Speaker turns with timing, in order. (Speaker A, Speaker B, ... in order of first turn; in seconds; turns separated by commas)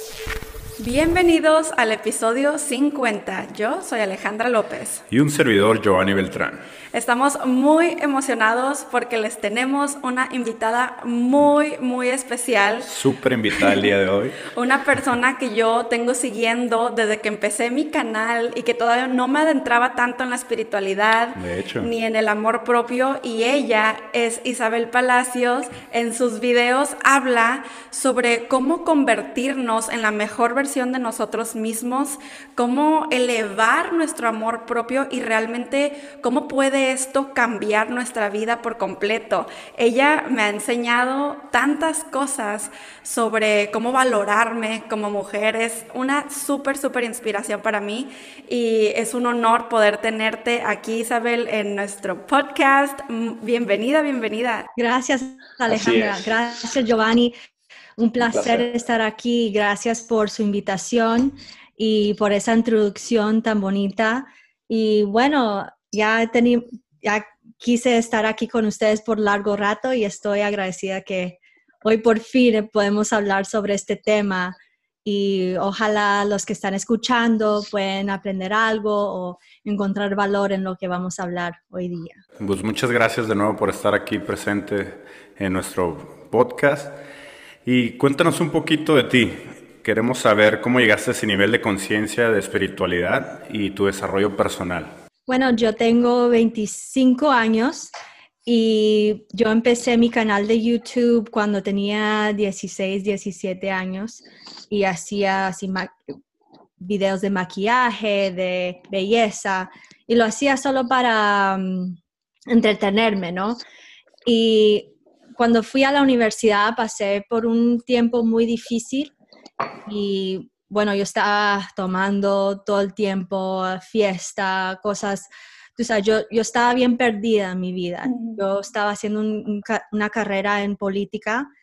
Speaker A: 0.8-5.0, Speaker B: 5.1-6.6, Speaker A: 6.9-12.9, Speaker B: 12.9-14.4, Speaker A: 14.5-54.7, Speaker B: 21.3-21.9, Speaker C: 54.8-57.3, Speaker B: 55.7-56.3, Speaker C: 58.0-82.2, Speaker B: 58.3-58.6, Speaker B: 82.4-87.0, Speaker B: 87.6-94.9, Speaker C: 95.3-97.9, Speaker C: 98.5-106.0, Speaker C: 106.8-112.0, Speaker C: 112.5-113.6, Speaker C: 114.2-119.1, Speaker C: 119.9-131.5, Speaker A: 128.1-128.4